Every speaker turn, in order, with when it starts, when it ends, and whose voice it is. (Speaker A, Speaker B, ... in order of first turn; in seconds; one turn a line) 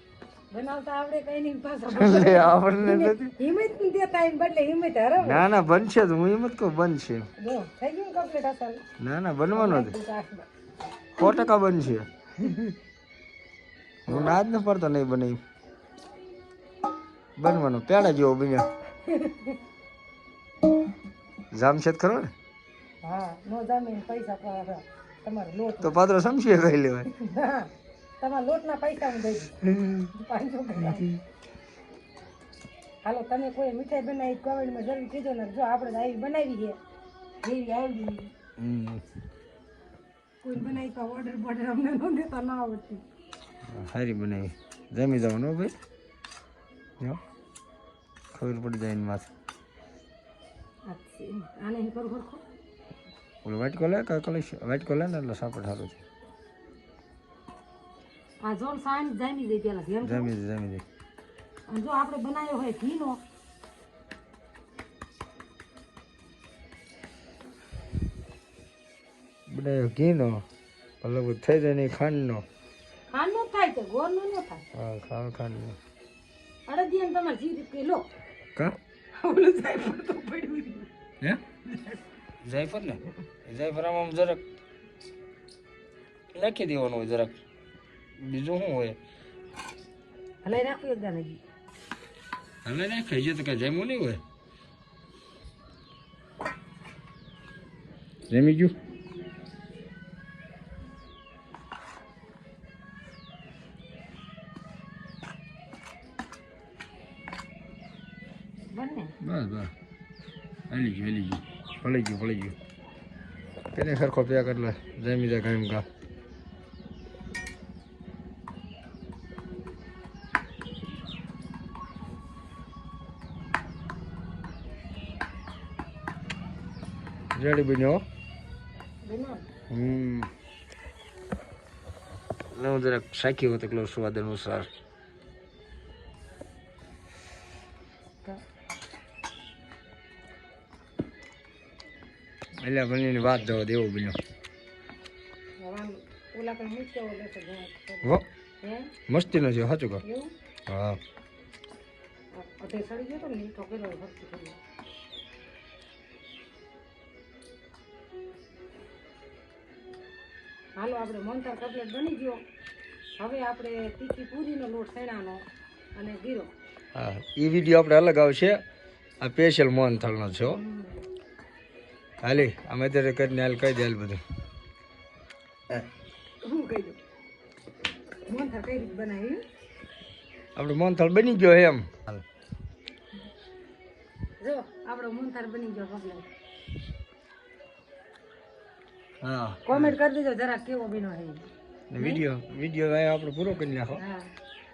Speaker A: 0.5-5.5
Speaker B: 1.9-3.3
Speaker B: 5.2-7.3
Speaker A: 7.4-8.8
Speaker B: 9.0-10.0
Speaker A: 9.5-10.5
Speaker B: 11.2-12.8
Speaker A: 11.2-11.5
Speaker B: 14.1-15.4
Speaker A: 14.1-14.4
Speaker B: 17.4-18.7
Speaker A: 19.1-19.6
Speaker B: 21.5-22.3
Speaker A: 23.0-26.0
Speaker B: 25.8-27.1
Speaker A: 27.1-31.1
Speaker A: 33.0-36.8
Speaker A: 37.4-38.3
Speaker B: 38.6-39.0
Speaker A: 40.4-43.0
Speaker B: 43.7-45.7
Speaker B: 48.3-49.3
Speaker A: 50.9-52.4
Speaker B: 53.4-56.0
Speaker A: 58.4-60.3
Speaker B: 60.0-60.8
Speaker A: 61.7-63.2
Speaker B: 69.5-70.4
Speaker B: 71.0-72.5
Speaker A: 73.1-74.7
Speaker B: 74.7-75.8
Speaker A: 76.7-78.1
Speaker A: 79.1-80.9
Speaker A: 81.7-82.0
Speaker B: 82.4-84.4
Speaker B: 86.3-87.3
Speaker B: 88.2-89.0
Speaker A: 90.4-91.4
Speaker B: 92.6-94.2
Speaker B: 98.3-98.7
Speaker A: 108.7-109.2
Speaker B: 109.2-109.7
Speaker B: 110.7-112.6
Speaker B: 113.7-115.9
Speaker B: 127.3-128.0
Speaker A: 129.1-129.4
Speaker B: 129.7-130.3
Speaker B: 132.5-134.7
Speaker B: 142.6-144.2
Speaker A: 145.6-148.9
Speaker B: 149.1-150.0
Speaker A: 150.0-150.3
Speaker B: 150.7-151.0
Speaker A: 152.3-154.6
Speaker A: 160.8-162.4
Speaker A: 163.2-165.4
Speaker A: 165.9-166.5
Speaker B: 166.9-168.6
Speaker B: 169.2-170.6
Speaker A: 170.4-171.0
Speaker B: 172.2-174.2
Speaker A: 176.4-177.0
Speaker A: 178.3-179.4
Speaker B: 180.6-182.2
Speaker A: 184.4-186.3
Speaker B: 189.2-190.0
Speaker A: 189.7-192.2
Speaker B: 191.9-194.0
Speaker A: 194.0-194.3